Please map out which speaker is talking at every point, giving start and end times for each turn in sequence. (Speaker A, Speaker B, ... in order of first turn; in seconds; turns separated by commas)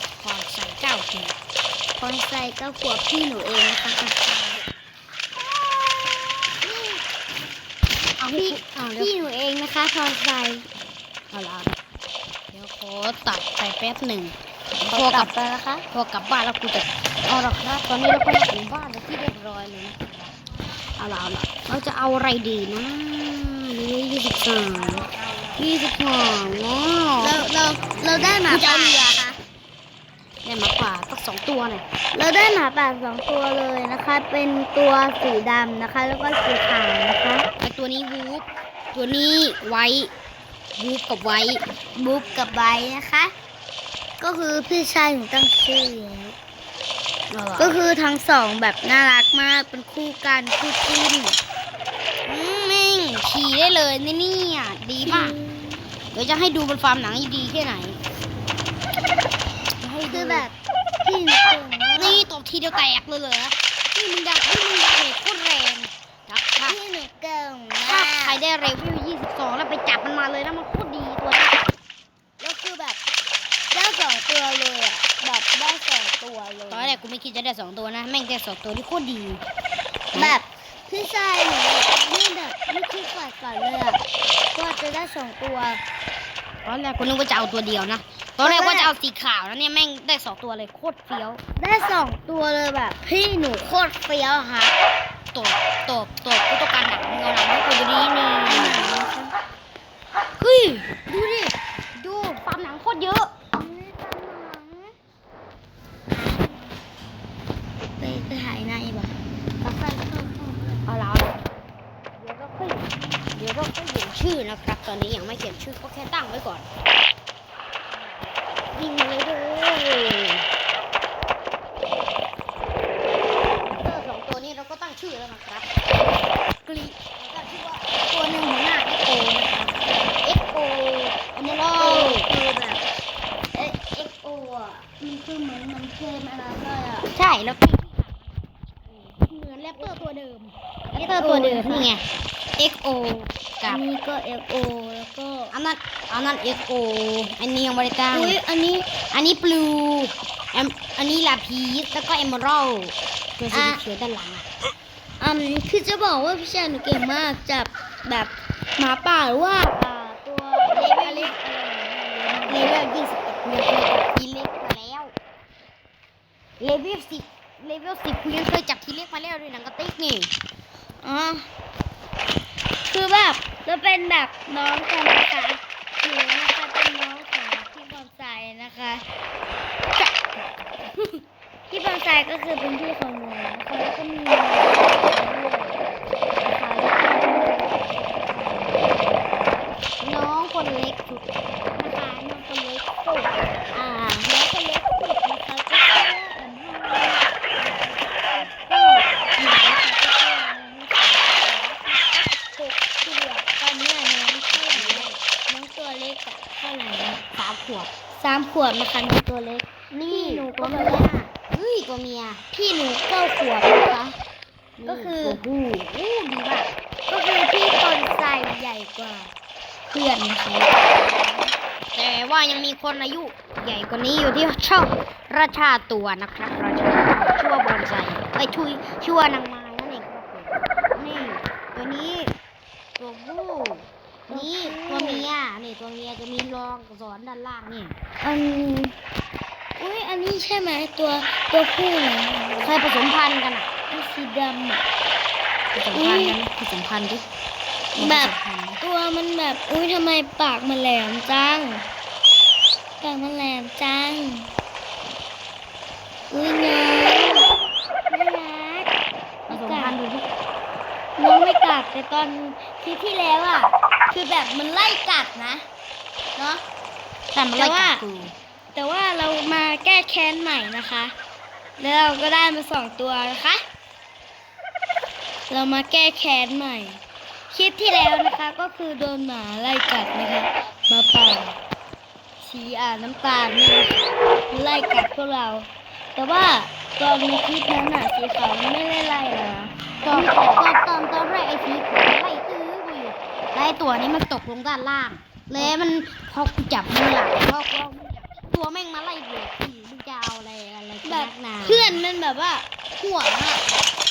Speaker A: 0.2-1.3, Speaker B: 1.9-4.2, Speaker B: 6.6-7.0, Speaker A: 8.2-9.2, Speaker B: 8.2-10.7, Speaker A: 11.3-11.8, Speaker A: 12.5-15.3, Speaker B: 14.9-15.8, Speaker A: 15.9-20.3, Speaker A: 21.0-27.5, Speaker B: 27.2-29.4, Speaker A: 28.4-29.1, Speaker A: 30.4-31.8, Speaker B: 32.1-37.5, Speaker A: 37.6-40.1, Speaker A: 40.8-41.6, Speaker B: 41.9-43.3, Speaker B: 44.2-46.4, Speaker A: 47.3-47.8, Speaker B: 47.6-51.4, Speaker A: 52.2-55.4, Speaker B: 55.0-55.8, Speaker A: 56.1-58.0, Speaker A: 59.8-60.5, Speaker B: 60.0-62.3, Speaker A: 62.0-66.8, Speaker B: 66.6-68.4, Speaker A: 67.9-71.6, Speaker B: 72.4-73.0, Speaker B: 73.7-77.0, Speaker A: 76.7-79.4, Speaker B: 80.1-85.8, Speaker A: 86.6-91.4, Speaker B: 88.4-88.9, Speaker B: 91.6-94.7, Speaker A: 95.3-99.0, Speaker B: 98.2-99.3, Speaker B: 100.4-101.5, Speaker A: 100.4-103.3, Speaker B: 103.5-104.9, Speaker B: 106.1-106.6, Speaker B: 108.0-110.8, Speaker A: 110.5-111.4, Speaker A: 112.2-116.7, Speaker A: 118.0-120.4, Speaker B: 118.7-119.3, Speaker A: 123.6-125.9, Speaker A: 126.6-132.3, Speaker B: 130.6-131.1, Speaker B: 131.7-132.8, Speaker B: 133.5-137.1, Speaker A: 137.1-142.0, Speaker B: 140.9-141.9, Speaker A: 142.6-143.8, Speaker B: 143.6-145.5, Speaker A: 145.5-148.4, Speaker B: 148.1-148.9, Speaker A: 149.1-154.5, Speaker B: 153.5-153.8, Speaker B: 155.2-162.8, Speaker A: 160.7-161.4, Speaker A: 162.5-165.1, Speaker A: 166.6-170.3, Speaker B: 171.0-171.4, Speaker B: 172.8-179.1, Speaker A: 180.0-180.4, Speaker B: 180.9-185.8, Speaker B: 186.4-189.2, Speaker A: 190.0-191.2, Speaker B: 191.7-207.2, Speaker A: 204.5-205.2, Speaker A: 207.3-207.9, Speaker B: 208.1-211.1, Speaker A: 209.9-212.4, Speaker B: 212.5-214.2, Speaker A: 214.8-216.7, Speaker B: 214.8-215.4, Speaker B: 217.1-219.3, Speaker B: 219.9-221.5, Speaker A: 221.9-232.3, Speaker A: 233.0-237.9, Speaker B: 234.3-235.3, Speaker B: 238.2-238.9, Speaker B: 239.8-242.7, Speaker A: 242.6-243.7, Speaker B: 243.9-244.8, Speaker A: 245.7-247.2, Speaker B: 245.9-246.4, Speaker B: 247.9-251.8, Speaker A: 247.9-248.8, Speaker B: 253.0-254.5, Speaker B: 256.3-257.5, Speaker B: 258.1-258.9, Speaker B: 259.5-260.0, Speaker A: 259.5-260.3, Speaker B: 261.2-265.6, Speaker B: 266.4-266.6, Speaker A: 267.3-268.3, Speaker B: 267.5-268.0, Speaker B: 268.7-271.1, Speaker B: 271.8-273.6, Speaker B: 275.5-281.6, Speaker B: 282.4-290.9, Speaker A: 290.0-302.0, Speaker B: 301.0-302.7, Speaker A: 302.9-303.6